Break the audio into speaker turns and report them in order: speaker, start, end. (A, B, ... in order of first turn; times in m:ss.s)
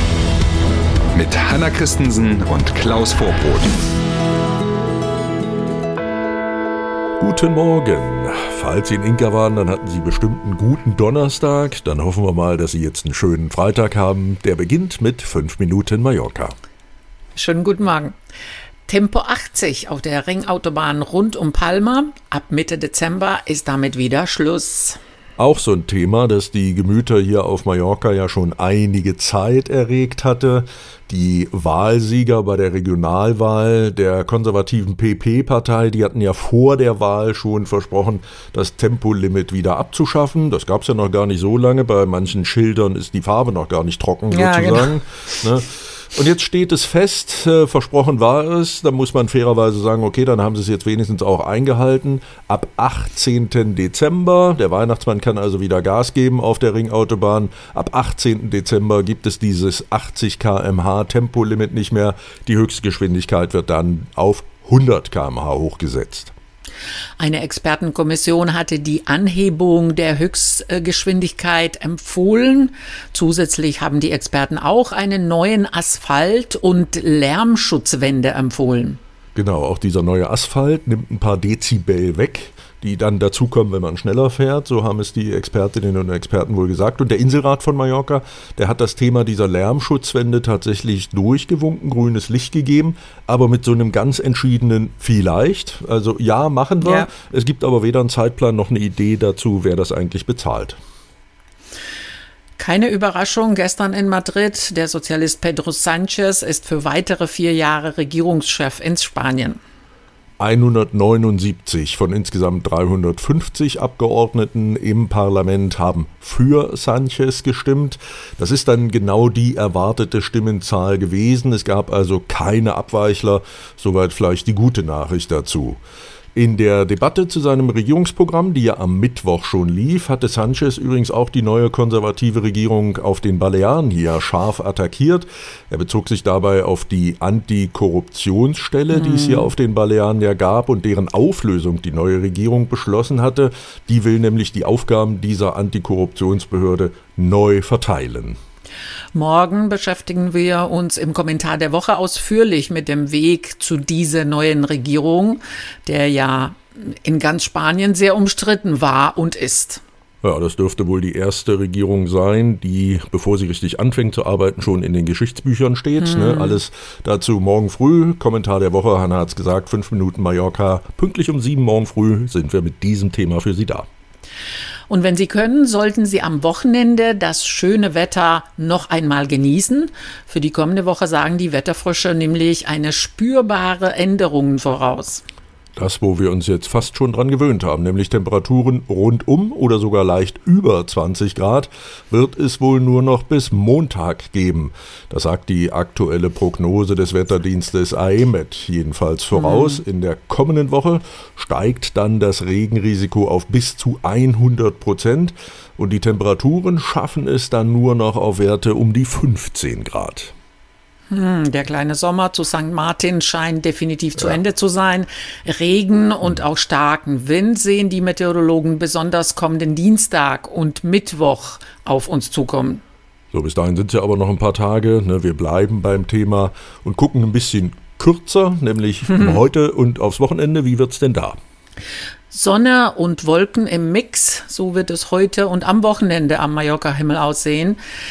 0:01.1-0:03.8 A
0:07.2-0:16.5 B
0:17.4-0:18.1 C
0:18.8-0:25.0 C
0:25.4-1:06.3 B
0:44.3-0:45.0 C
1:07.2-1:19.0 C
1:19.3-1:40.8 B
1:36.8-1:37.1 C
1:42.6-1:49.6 C
1:50.4-2:05.8 B
2:06.3-2:28.4 B
2:18.9-2:19.5 C
2:29.1-2:39.8 C
2:40.2-2:53.8 B
2:46.0-2:46.6 C
2:54.9-3:05.2 C
3:05.8-3:30.3 B
3:19.3-3:19.8 C
3:31.1-3:42.8 C
3:43.3-3:51.4 B
3:52.3-3:57.8 C